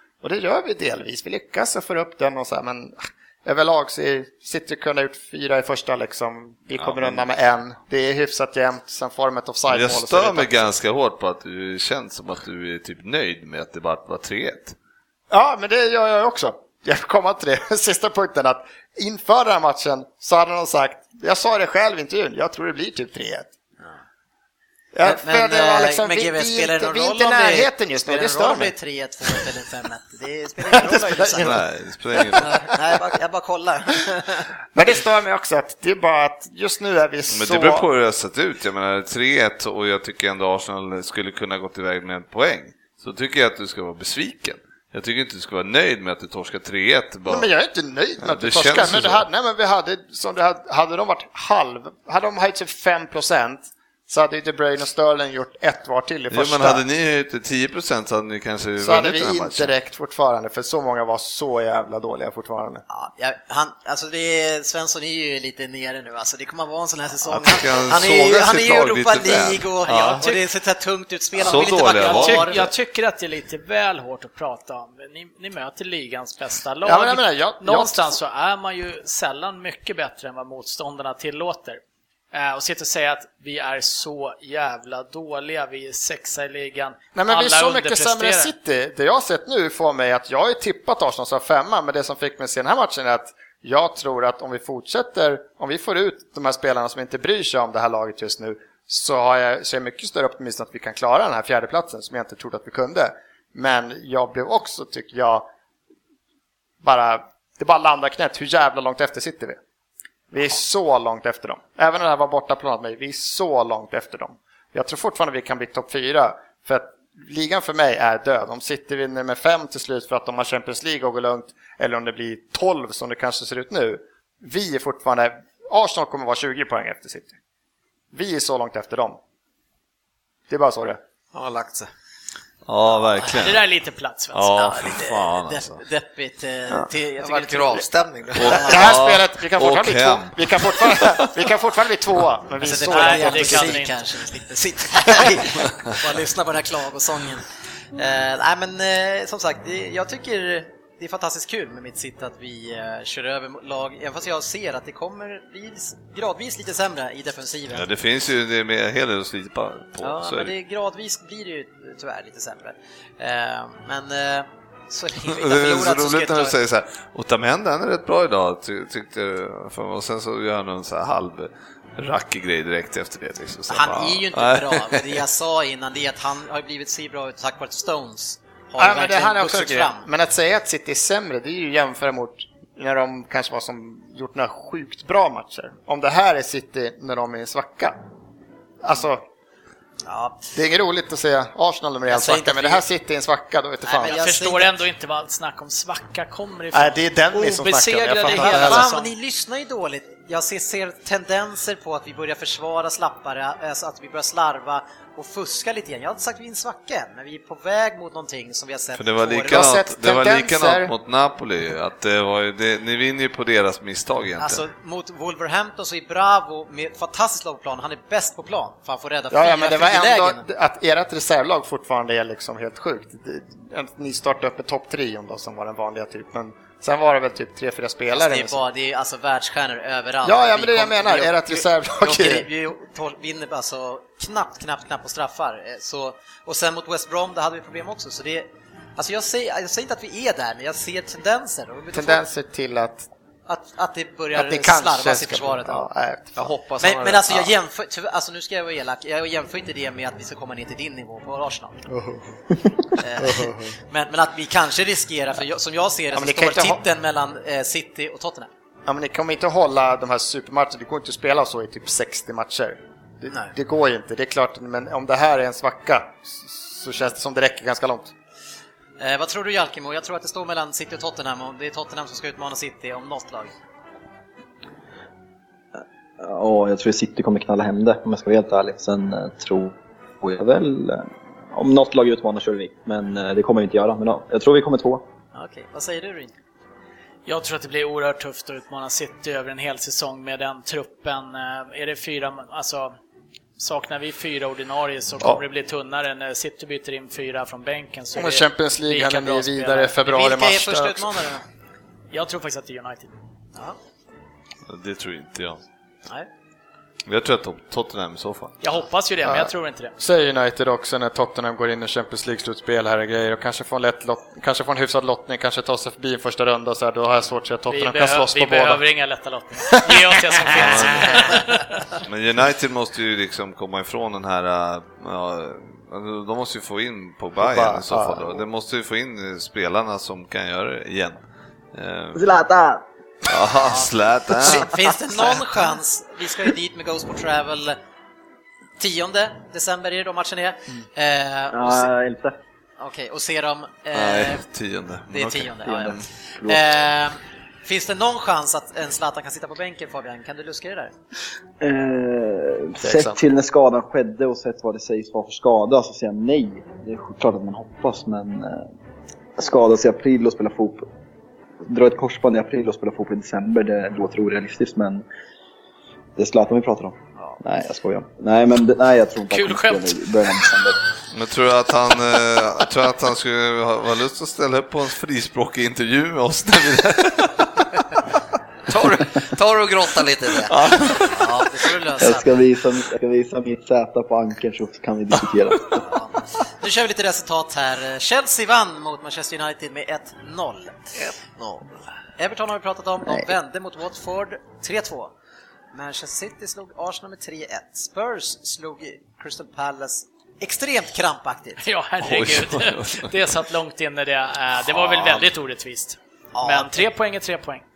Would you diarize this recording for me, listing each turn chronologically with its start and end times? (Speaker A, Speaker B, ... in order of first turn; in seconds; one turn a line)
Speaker A: 0.2-10.7
Speaker B: 6.8-7.2
Speaker B: 9.7-14.8
Speaker A: 15.3-23.5
Speaker A: 24.9-28.7
Speaker C: 25.0-31.6
Speaker A: 30.6-31.6
Speaker B: 31.4-32.5
Speaker A: 32.1-32.8
Speaker C: 32.4-34.5
Speaker A: 34.7-37.9
Speaker B: 37.3-47.5
Speaker A: 47.3-56.8
Speaker B: 48.2-49.2
Speaker B: 56.3-59.7
Speaker A: 58.8-62.8
Speaker C: 62.9-72.7
Speaker B: 67.3-70.3
Speaker B: 71.4-72.6
Speaker D: 71.4-81.8
Speaker A: 76.8-78.2
Speaker D: 82.3-88.5
Speaker A: 87.1-105.5
Speaker A: 106.8-109.6
Speaker A: 110.3-127.3
Speaker A: 128.1-129.2
Speaker A: 130.5-131.0
Speaker E: 131.3-131.9
Speaker B: 132.7-133.7
Speaker C: 132.9-133.3
Speaker D: 133.3-134.8
Speaker B: 134.3-135.8
Speaker C: 134.6-138.8
Speaker E: 137.2-138.9
Speaker B: 138.4-141.3
Speaker A: 138.6-143.8
Speaker C: 142.6-157.9
Speaker D: 142.8-144.1
Speaker B: 157.7-160.5
Speaker C: 160.0-166.6
Speaker B: 165.2-175.2
Speaker C: 173.7-180.1
Speaker A: 178.8-188.0
Speaker A: 188.8-189.2
Speaker C: 190.1-190.5
Speaker A: 190.5-194.2
Speaker C: 192.1-192.8
Speaker C: 193.8-194.7
Speaker D: 194.1-199.1
Speaker A: 196.7-198.9
Speaker C: 198.3-209.7
Speaker B: 209.0-214.6
Speaker A: 209.5-210.9
Speaker C: 214.4-220.4
Speaker A: 219.3-228.6
Speaker C: 228.1-242.2
Speaker A: 230.2-232.5
Speaker A: 241.9-243.1
Speaker C: 243.5-245.9
Speaker A: 244.3-246.5
Speaker E: 246.3-247.5
Speaker C: 246.8-251.9
Speaker A: 251.9-253.8
Speaker C: 253.0-258.5
Speaker A: 256.1-256.8
Speaker A: 258.9-268.1
Speaker C: 263.3-263.5
Speaker C: 269.0-273.5
Speaker F: 275.8-285.0
Speaker C: 285.3-286.3
Speaker D: 287.2-293.0
Speaker D: 293.6-300.0
Speaker A: 298.1-301.3
Speaker C: 300.0-301.4
Speaker D: 302.1-303.1
Speaker B: 304.7-305.6
Speaker B: 307.1-308.6
Speaker D: 308.6-309.9
Speaker A: 309.2-318.8
Speaker D: 317.7-321.9
Speaker A: 319.8-321.2
Speaker B: 320.5-321.3
Speaker B: 322.0-331.2
Speaker A: 327.4-328.4
Speaker B: 331.7-332.2
Speaker F: 332.1-332.8
Speaker B: 333.2-334.7
Speaker C: 333.6-337.8
Speaker C: 338.8-341.9
Speaker F: 341.5-342.4
Speaker C: 342.8-344.4
Speaker B: 343.9-345.5
Speaker C: 345.1-350.9
Speaker F: 345.6-346.6
Speaker F: 351.6-358.7
Speaker A: 352.8-353.2
Speaker F: 359.4-360.9
Speaker F: 361.6-365.0
Speaker F: 366.2-370.8
Speaker D: 369.3-370.0
Speaker B: 371.1-377.8
Speaker E: 378.7-380.8
Speaker B: 380.4-381.5
Speaker C: 381.1-382.4
Speaker F: 382.0-385.8
Speaker C: 385.7-391.0
Speaker E: 390.9-391.8
Speaker C: 392.2-395.1
Speaker C: 395.7-401.6
Speaker D: 401.6-407.6
Speaker B: 402.0-403.3
Speaker B: 404.6-405.3
Speaker C: 406.3-406.9